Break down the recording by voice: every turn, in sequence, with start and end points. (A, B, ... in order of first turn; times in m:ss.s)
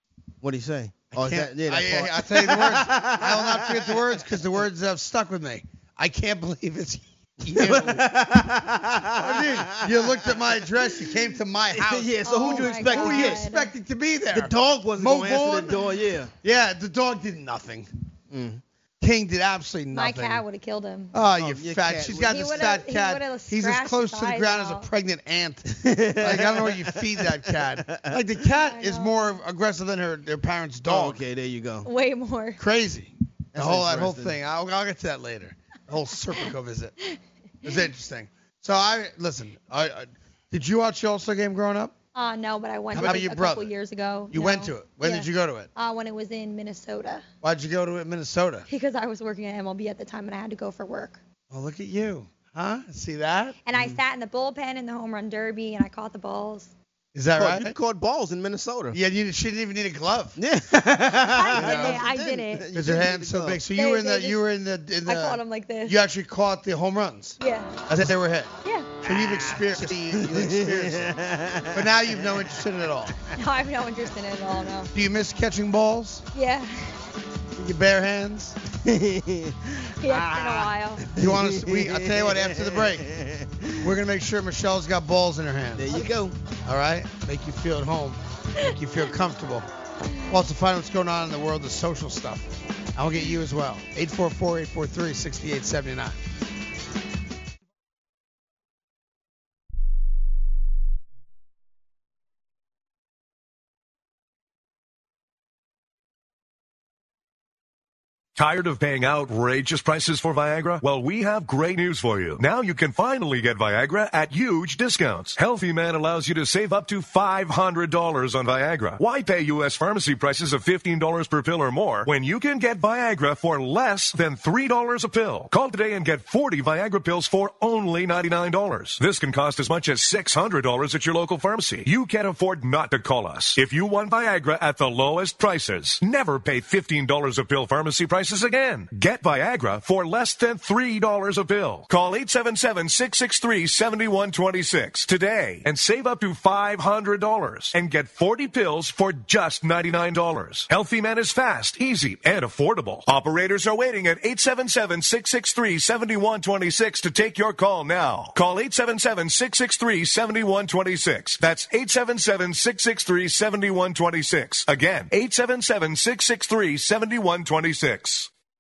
0:00.4-0:04.1 A
0:01.1-0:08.1 B
0:07.5-0:11.2 A
0:09.2-0:15.8 B
0:11.7-0:13.4 A
0:12.2-0:13.7 C
0:14.3-0:16.3 A
0:16.4-0:17.9 B
0:18.3-0:18.6 A
0:19.0-0:20.4 B
0:19.9-0:21.2 C
0:21.1-0:31.2 B
0:21.3-0:22.4 A
0:22.3-0:24.9 C
0:25.7-0:28.2 A
0:28.6-0:29.4 C
0:30.9-0:31.9 A
0:31.8-0:32.6 C
0:32.6-0:36.9 B
0:33.5-0:34.4 A
0:37.6-0:41.9 B
0:42.1-0:47.2 C
0:42.9-0:43.7 B
0:43.0-0:43.2 A
0:44.3-0:45.7 B
0:47.4-0:48.7 B
0:48.7-0:51.2 C
0:51.5-0:53.6 B
0:53.7-0:56.7 C
0:57.1-0:57.7 B
0:57.4-0:59.0 A
0:58.9-1:00.4 B
1:00.4-1:03.6 A
1:01.2-1:02.7 C
1:01.5-1:02.0 B
1:02.7-1:07.4 B
1:03.7-1:04.4 C
1:05.0-1:06.0 C
1:07.4-1:07.8 C
1:07.9-1:08.5 B
1:08.6-1:09.0 C
1:09.0-1:11.2 B
1:09.0-1:12.5 A
1:11.7-1:13.2 B
1:13.3-1:14.9 C
1:14.9-1:16.3 B
1:16.3-1:17.0 C
1:17.6-1:18.6 B
1:18.8-1:23.9 A
1:20.0-1:21.1 C
1:21.1-1:23.1 B
1:23.8-1:26.0 B
1:25.8-1:26.4 A
1:26.6-1:29.7 B
1:30.3-1:36.2 B
1:48.4-2:48.3 D